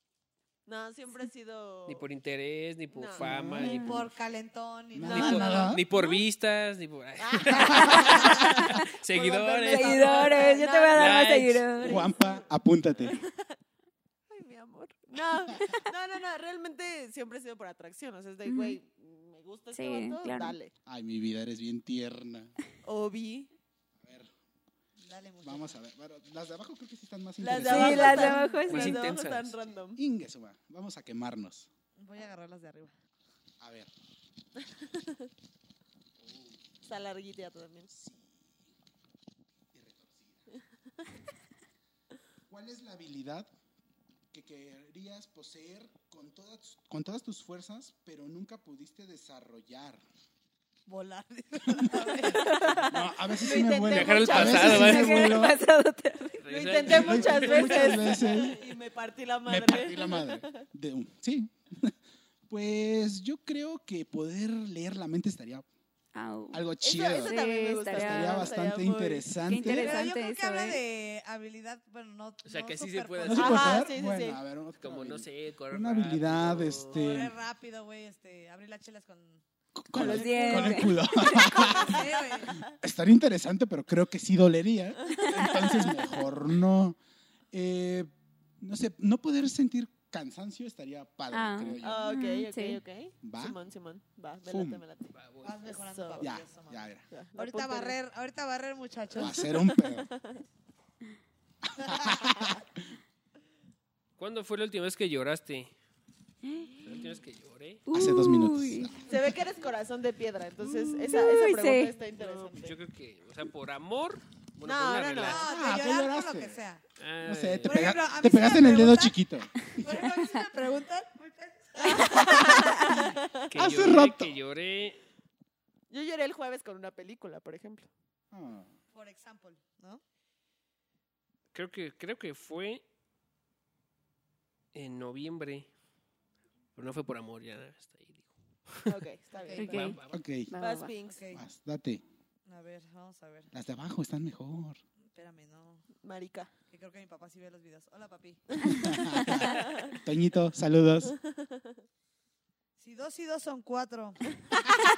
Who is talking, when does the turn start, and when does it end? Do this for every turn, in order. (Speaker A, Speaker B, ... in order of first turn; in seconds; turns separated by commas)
Speaker A: 0.7-2.0, Speaker B: 1.9-3.9, Speaker A: 2.9-3.2, Speaker C: 3.2-4.0, Speaker D: 3.6-3.9, Speaker E: 3.7-5.7, Speaker C: 4.9-5.8, Speaker A: 5.0-6.2, Speaker B: 5.1-10.4, Speaker A: 7.2-12.4, Speaker C: 7.5-8.3, Speaker D: 7.8-8.8, Speaker D: 9.7-12.1, Speaker B: 10.9-11.7, Speaker C: 11.8-13.2, Speaker A: 13.0-13.6, Speaker A: 14.3-20.7, Speaker D: 18.4-18.8, Speaker D: 19.7-20.6, Speaker C: 20.9-22.5, Speaker A: 22.8-23.5, Speaker C: 24.0-24.3, Speaker E: 25.0-25.8, Speaker C: 25.4-28.4, Speaker A: 27.4-30.0, Speaker D: 27.6-29.1, Speaker B: 28.6-29.6, Speaker C: 30.0-31.7, Speaker E: 31.9-32.9, Speaker C: 33.6-33.9, Speaker A: 34.7-35.3, Speaker C: 36.2-36.6, Speaker A: 36.8-37.9, Speaker C: 37.9-38.7, Speaker C: 39.7-40.5, Speaker C: 42.5-43.5, Speaker C: 44.3-50.0, Speaker E: 50.9-52.6, Speaker C: 51.7-55.6, Speaker D: 52.4-52.9, Speaker A: 53.3-55.2, Speaker B: 53.7-55.4, Speaker D: 54.6-56.4, Speaker B: 56.4-58.0, Speaker A: 56.5-60.6, Speaker C: 56.9-58.6, Speaker C: 59.5-61.9, Speaker C: 62.5-65.7, Speaker D: 66.1-68.5, Speaker C: 66.5-70.0, Speaker A: 66.8-69.4, Speaker D: 69.4-70.8, Speaker E: 69.6-73.8, Speaker B: 72.4-73.7, Speaker C: 73.2-77.3, Speaker A: 73.3-74.4, Speaker B: 74.8-77.0, Speaker E: 76.9-79.4, Speaker C: 79.7-82.1, Speaker D: 79.9-81.5, Speaker A: 80.0-80.7, Speaker E: 80.3-82.6, Speaker A: 81.7-82.7, Speaker C: 82.7-87.0, Speaker A: 85.0-85.3, Speaker D: 85.3-85.6, Speaker C: 87.5-92.0, Speaker D: 91.3-92.8, Speaker A: 91.8-95.1, Speaker C: 93.2-93.6, Speaker C: 94.5-94.8, Speaker B: 95.1-95.6, Speaker E: 95.4-99.5, Speaker A: 95.7-96.3, Speaker C: 96.2-97.0, Speaker A: 97.1-98.0, Speaker C: 99.1-100.1, Speaker A: 99.2-100.4, Speaker C: 101.7-102.6, Speaker A: 102.1-102.6, Speaker B: 104.2-105.7, Speaker D: 106.4-106.8, Speaker B: 106.8-107.8, Speaker D: 107.9-109.0, Speaker C: 107.9-109.0, Speaker A: 109.0-112.8, Speaker D: 111.0-111.9, Speaker E: 112.2-112.5, Speaker B: 112.5-115.5, Speaker A: 114.6-115.5, Speaker E: 115.2-116.8, Speaker C: 115.4-116.6, Speaker B: 117.0-117.9, Speaker C: 117.2-119.5, Speaker E: 117.6-122.5, Speaker A: 121.8-123.4, Speaker D: 122.7-123.0, Speaker B: 123.5-125.0, Speaker C: 123.5-124.3, Speaker A: 125.9-127.9, Speaker C: 128.3-128.7, Speaker E: 128.9-130.0, Speaker B: 131.5-132.8, Speaker B: 134.7-135.7, Speaker B: 136.8-138.9, Speaker A: 138.9-139.9, Speaker E: 139.3-139.9, Speaker D: 139.6-140.9, Speaker B: 139.7-140.2, Speaker C: 140.1-140.5, Speaker A: 140.6-141.2, Speaker E: 141.1-141.4, Speaker C: 141.3-142.0, Speaker E: 142.4-143.5, Speaker C: 143.5-144.8, Speaker E: 145.1-145.8, Speaker A: 146.0-146.5, Speaker E: 146.7-148.7, Speaker A: 148.6-150.0, Speaker C: 148.6-151.1, Speaker A: 151.1-151.8, Speaker E: 152.8-154.3